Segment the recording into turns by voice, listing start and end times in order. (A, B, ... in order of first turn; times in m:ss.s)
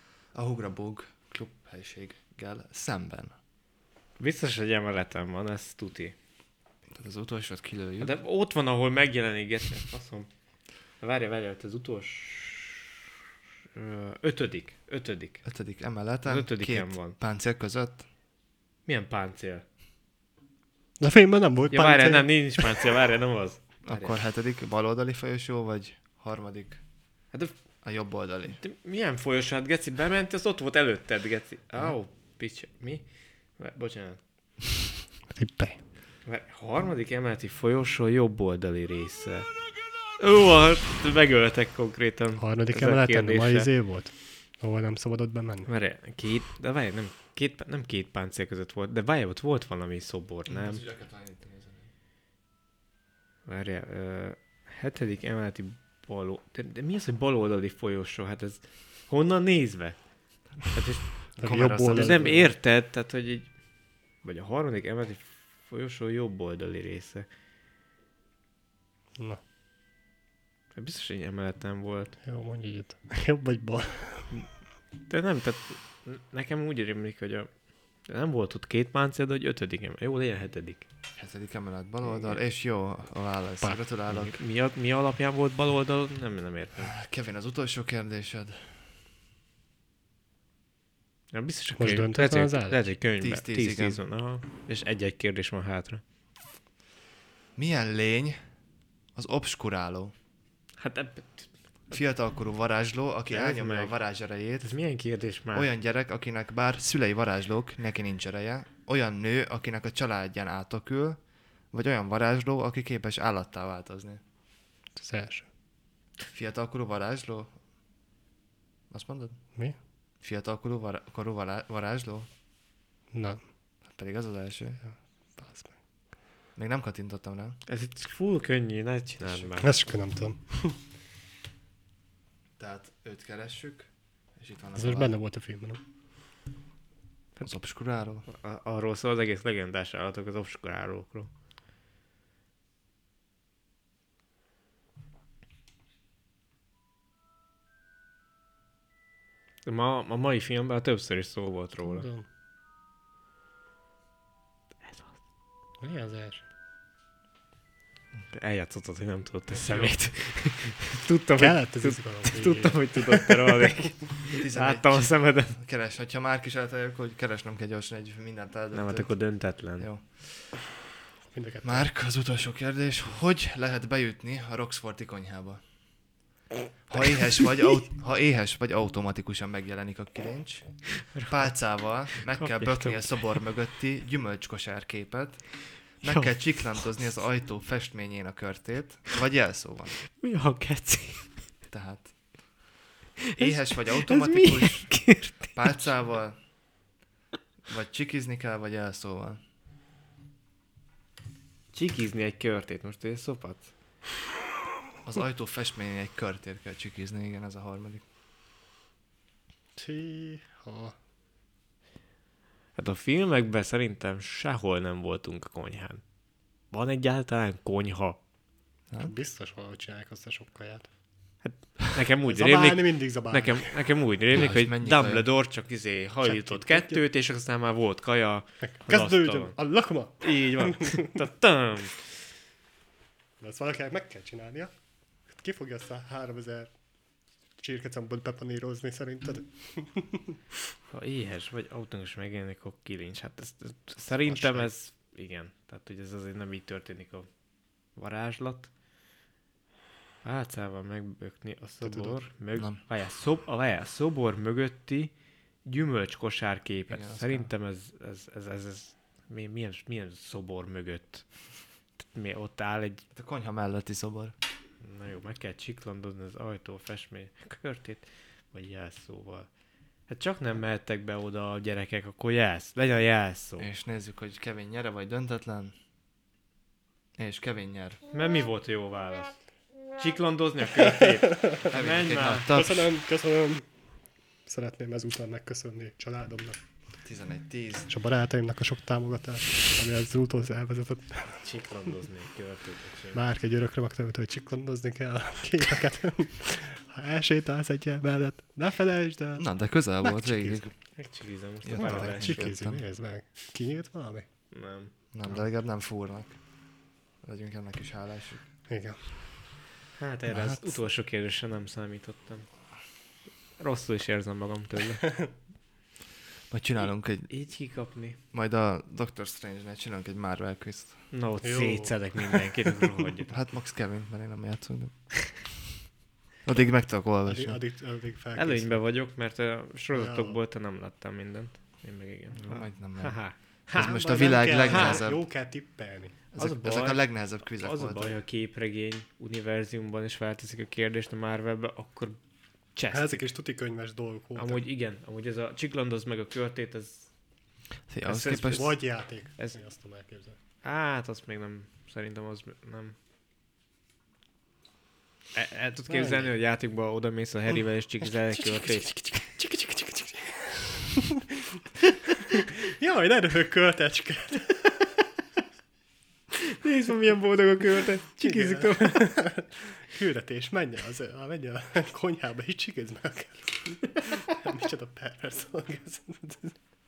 0:00.3-0:03.4 A
0:04.2-0:06.2 B
0:06.9-0:08.1 A
0:08.0-0:10.3 B
0:11.0-0:12.9 B
0:13.8-0:15.4 B
0:15.4-0:18.0 A
0:16.2-0:17.2 B
0:18.9-0:19.6 B
0:21.0-0:22.8 C
0:21.7-0:24.2 B
0:23.8-0:26.8 A
0:27.8-0:28.6 A
0:28.6-0:33.0 B
0:33.6-0:34.2 B
0:35.3-0:35.8 C
0:36.2-0:39.5 B
0:40.2-0:43.7 B
0:42.4-0:45.7 C
0:45.7-0:50.8 B
0:50.5-0:51.9 A
0:53.5-1:00.0 B
1:00.7-1:03.5 B
1:01.4-1:02.4 A
1:01.4-1:02.5 C
1:04.2-1:07.3 B
1:10.8-1:12.2 B
1:12.2-1:14.4 C
1:15.1-1:17.5 B
1:18.1-1:20.8 B
1:21.2-1:24.4 A
1:22.0-1:22.4 B
1:24.1-1:26.9 B
1:26.8-1:28.8 A
1:31.3-1:36.0 B
1:31.8-1:32.8 C
1:33.2-1:34.0 A
1:37.6-1:38.4 A
1:39.2-1:40.1 A
1:40.8-1:41.5 B
1:41.9-1:44.7 A
1:43.3-1:44.0 B
1:44.6-1:45.7 B
1:45.5-1:51.2 A
1:51.7-1:54.2 A
1:55.0-1:55.5 C
1:56.3-1:57.5 A
1:58.9-1:59.4 A
2:00.2-2:02.3 A
2:03.1-2:03.4 C
2:03.9-2:04.8 A
2:05.4-2:05.7 C
2:06.6-2:07.6 A
2:07.7-2:09.8 B
2:09.2-2:09.5 A
2:09.6-2:10.8 C
2:12.6-2:15.2 A
2:14.8-2:15.8 C
2:17.4-2:18.3 A
2:18.3-2:21.3 B
2:29.6-2:32.1 B
2:31.8-2:32.2 C
2:34.8-2:35.2 B
2:35.8-2:36.4 C
2:38.2-2:45.6 B
2:39.5-2:40.0 A
2:41.4-2:43.6 C
2:44.4-2:50.6 A
2:48.7-2:49.9 B
2:51.3-2:51.9 C
2:51.6-2:55.6 A
2:56.9-3:05.5 A
3:01.1-3:01.5 B
3:02.3-3:03.2 B
3:06.0-3:10.0 A
3:06.0-3:06.3 B
3:10.1-3:11.3 B
3:11.7-3:12.1 A
3:13.4-3:15.6 B
3:13.4-3:16.4 A
3:17.7-3:19.4 A
3:21.7-3:23.7 B
3:25.0-3:28.0 A
3:29.8-3:31.0 C
3:32.8-3:36.0 B
3:36.7-3:38.2 B
3:39.0-3:40.9 C
3:41.4-3:49.6 B
3:42.3-3:43.8 C
3:44.3-3:45.3 A
3:46.2-3:47.0 C
3:48.6-3:51.1 C
3:50.2-3:52.0 B
3:53.4-3:54.7 C
3:55.3-3:56.7 C
3:57.6-4:00.2 C
4:00.9-4:07.3 B
4:04.2-4:04.7 A
4:08.0-4:08.7 B
4:10.2-4:15.1 B
4:11.8-4:12.8 A
4:15.6-4:21.3 B
4:16.9-4:17.5 A
4:22.0-4:23.0 B
4:23.1-4:24.4 A
4:24.8-4:29.5 B
4:30.1-4:33.7 B
4:33.6-4:35.7 A
4:37.2-4:38.0 A
4:38.1-4:39.4 B
4:40.0-4:42.5 B
4:41.7-4:42.9 A
4:42.5-4:43.7 C
4:44.5-4:46.6 C
4:47.0-4:47.9 A
4:47.9-4:51.4 C
4:51.3-4:53.2 B
4:53.1-4:59.4 C
4:59.4-5:00.7 A
5:00.0-5:00.6 C
5:01.0-5:02.4 B
5:01.6-5:02.8 A
5:01.8-5:04.3 C
5:04.5-5:04.9 B
5:05.1-5:06.4 A
5:07.2-5:08.4 A
5:08.7-5:09.2 C
5:10.0-5:12.5 B
5:10.3-5:10.8 A
5:13.6-5:15.1 B
5:16.5-5:17.3 A
5:17.3-5:18.2 B
5:18.3-5:21.1 A
5:21.1-5:23.4 B
5:21.4-5:22.5 C
5:23.3-5:25.1 A
5:26.4-5:27.6 A
5:27.3-5:28.8 C
5:28.4-5:33.9 B
5:29.9-5:30.4 C
5:32.4-5:35.2 A
5:33.8-5:36.2 C
5:34.6-5:35.0 B
5:36.3-5:38.2 A
5:36.4-5:42.2 B
5:42.8-5:43.2 B
5:42.9-5:44.6 C
5:44.4-5:47.1 B
5:47.9-5:48.8 A
5:48.1-5:50.4 C
5:50.6-5:53.0 B
5:55.3-5:58.9 B
5:55.9-5:56.3 C
5:58.5-6:01.4 C
6:02.4-6:04.9 C
6:06.4-6:09.2 B
6:08.2-6:16.6 C